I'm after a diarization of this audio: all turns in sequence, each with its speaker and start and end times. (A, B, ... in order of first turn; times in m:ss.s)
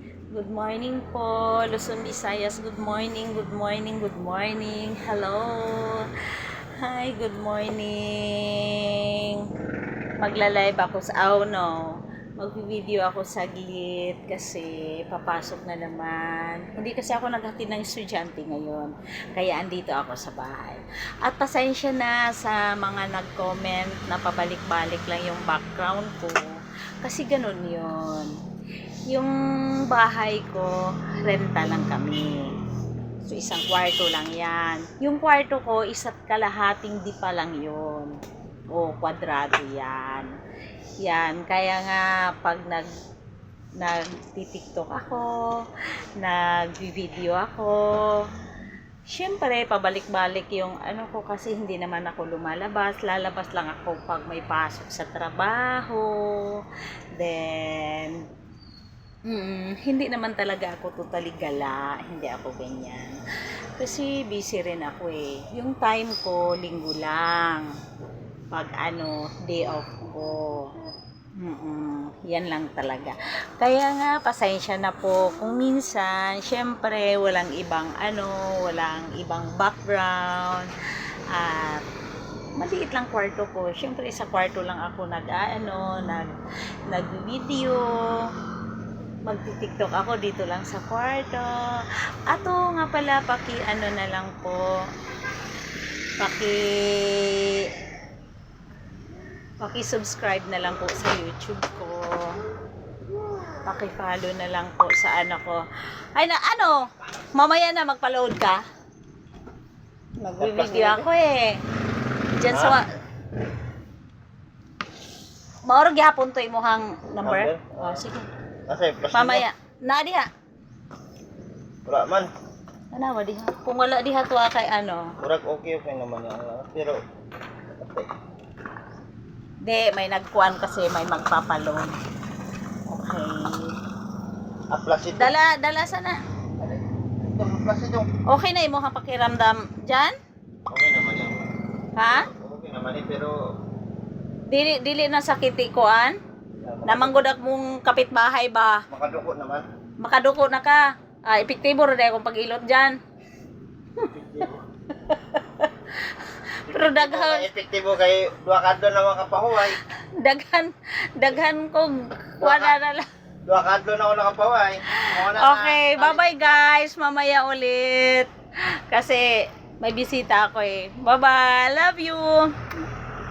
0:00.3-0:06.1 A
0:06.8-0:09.4 A
0:10.2-0:26.5 A
0:27.0-0:28.3 A
0:29.1-0:32.5 A
0:33.2-0:38.1 A
0:38.7-0:40.3 A
0:41.0-0:42.9 A
0:43.8-0:45.6 A
0:46.2-0:48.3 A
0:49.1-0:56.6 A
0:57.1-0:58.2 A
0:59.3-1:03.2 A
1:03.8-1:07.7 A
1:08.5-1:10.7 A
1:11.4-1:20.7 A
1:21.3-1:21.8 A
1:22.6-1:26.3 A
1:26.9-1:28.3 A
1:29.2-1:31.6 A
1:32.3-1:34.8 A
1:36.2-1:37.7 A
1:39.6-1:42.4 A
1:43.6-1:48.6 A
1:50.2-1:51.6 A
1:50.4-1:51.1 B
1:52.3-1:52.8 A
1:52.5-1:52.8 B
1:55.6-1:58.3 A
1:57.2-1:58.0 B
1:58.7-1:59.4 B
1:59.1-2:00.3 A
2:01.8-2:02.3 B
2:02.9-2:05.1 A
2:05.2-2:07.0 B
2:07.8-2:08.1 B
2:09.6-2:12.0 A
2:12.9-2:13.8 A
2:14.7-2:15.4 B
2:15.2-2:16.2 A
2:16.6-2:18.1 B
2:18.3-2:20.2 A
2:20.7-2:21.4 B
2:22.0-2:22.3 A
2:22.0-2:23.4 B
2:24.5-2:26.2 A
2:26.6-2:27.3 B
2:26.8-2:28.8 A
2:28.9-2:29.6 B
2:30.0-2:33.0 A
2:34.0-2:34.6 B
2:34.9-2:37.5 A
2:36.7-2:39.8 B
2:39.8-2:43.1 A
2:42.4-2:42.8 B
2:43.4-2:46.6 B
2:44.9-2:48.3 A
2:48.9-2:52.7 A